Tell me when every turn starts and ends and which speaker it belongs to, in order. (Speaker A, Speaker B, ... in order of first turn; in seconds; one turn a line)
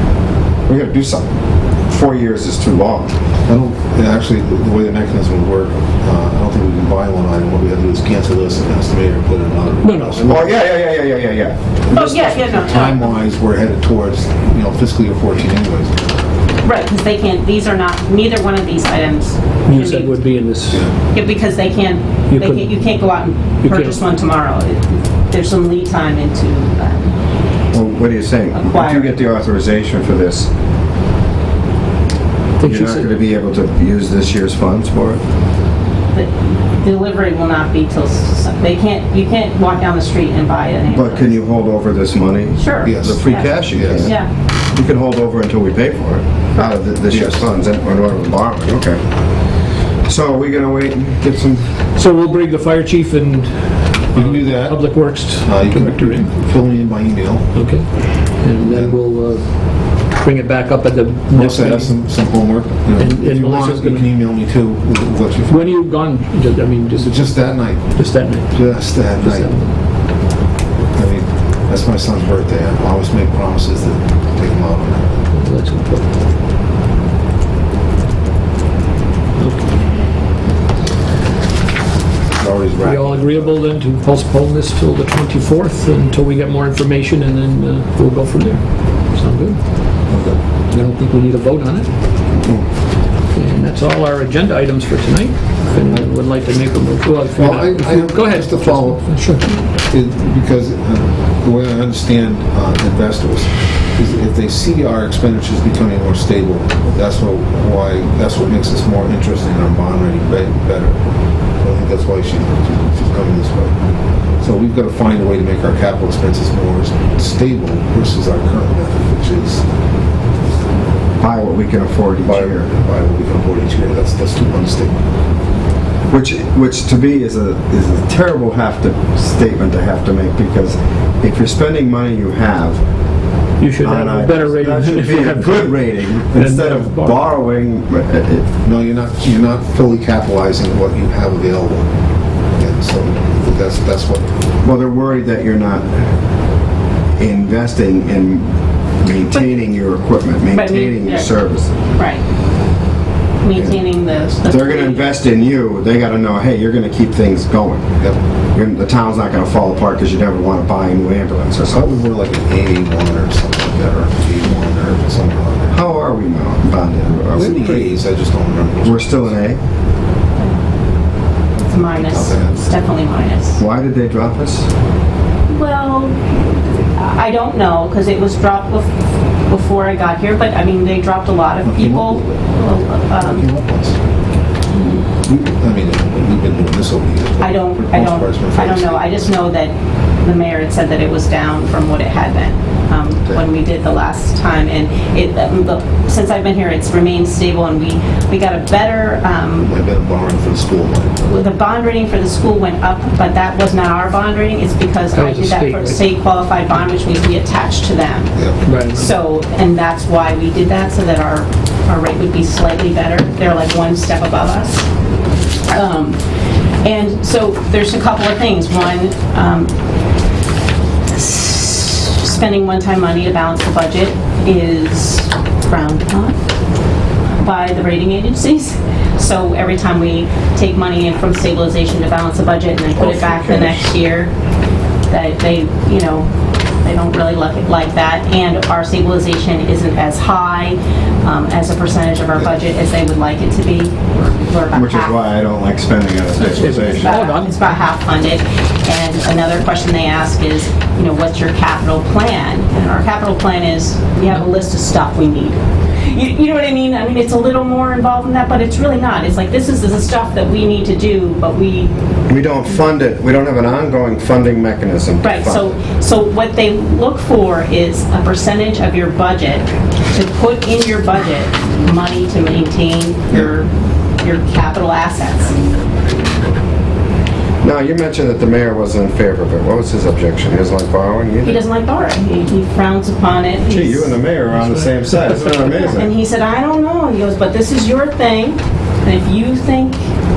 Speaker A: 0.7-1.2
Speaker A: 1.9-3.1
Speaker B: 3.5-10.6
Speaker C: 9.8-10.3
Speaker A: 10.2-12.1
Speaker D: 11.9-13.2
Speaker B: 12.1-16.0
Speaker D: 16.6-20.2
Speaker C: 19.7-20.9
Speaker D: 21.1-27.1
Speaker C: 22.3-24.0
Speaker A: 27.7-30.5
Speaker D: 28.5-29.2
Speaker C: 32.6-33.2
Speaker A: 32.6-35.2
Speaker D: 36.1-41.4
Speaker A: 40.9-44.1
Speaker D: 42.5-44.3
Speaker B: 42.8-44.1
Speaker A: 44.7-49.0
Speaker B: 47.1-47.5
Speaker A: 50.0-51.7
Speaker C: 52.0-56.3
Speaker B: 54.1-57.6
Speaker C: 57.5-62.1
Speaker B: 58.6-59.0
Speaker B: 61.3-65.8
Speaker C: 63.0-64.2
Speaker C: 65.5-69.8
Speaker B: 67.0-69.5
Speaker B: 70.9-75.3
Speaker C: 75.3-76.1
Speaker C: 79.4-79.7
Speaker A: 82.4-83.5
Speaker C: 82.8-90.1
Speaker B: 90.1-90.4
Speaker C: 90.6-91.9
Speaker A: 92.4-92.7
Speaker C: 93.3-99.5
Speaker B: 97.3-99.2
Speaker B: 99.8-111.0
Speaker B: 111.6-113.8
Speaker B: 114.4-119.6
Speaker A: 121.2-122.7
Speaker B: 122.2-125.0
Speaker A: 126.1-132.8
Speaker C: 133.6-137.2
Speaker A: 133.8-138.5
Speaker B: 138.6-141.9
Speaker B: 142.5-144.3
Speaker A: 144.6-146.1
Speaker A: 147.2-151.7
Speaker D: 150.5-151.3
Speaker D: 151.9-152.2
Speaker D: 153.4-155.2
Speaker A: 154.3-157.9
Speaker A: 158.5-161.9
Speaker B: 161.7-166.0
Speaker A: 165.7-167.9
Speaker B: 167.3-169.4
Speaker A: 168.8-169.6
Speaker D: 171.6-173.6
Speaker B: 171.7-172.7
Speaker A: 173.6-174.7
Speaker D: 175.5-178.9
Speaker D: 179.5-183.4
Speaker B: 181.6-182.4
Speaker B: 183.2-184.0
Speaker D: 184.7-185.0
Speaker B: 185.3-189.4
Speaker D: 187.4-199.7
Speaker B: 199.6-201.3
Speaker D: 201.2-214.9
Speaker C: 205.1-206.0
Speaker B: 208.3-208.6
Speaker C: 208.6-209.1
Speaker D: 215.7-216.2
Speaker D: 216.8-219.7
Speaker D: 221.1-226.3
Speaker D: 227.4-234.3
Speaker A: 233.0-233.9
Speaker D: 235.1-236.3
Speaker D: 236.8-245.2
Speaker A: 244.7-247.2
Speaker C: 246.4-247.8
Speaker D: 246.4-261.9
Speaker A: 262.3-265.8
Speaker D: 265.2-275.6
Speaker A: 277.6-281.6
Speaker D: 281.4-284.3
Speaker A: 283.7-286.1
Speaker C: 284.5-286.0
Speaker D: 285.9-290.0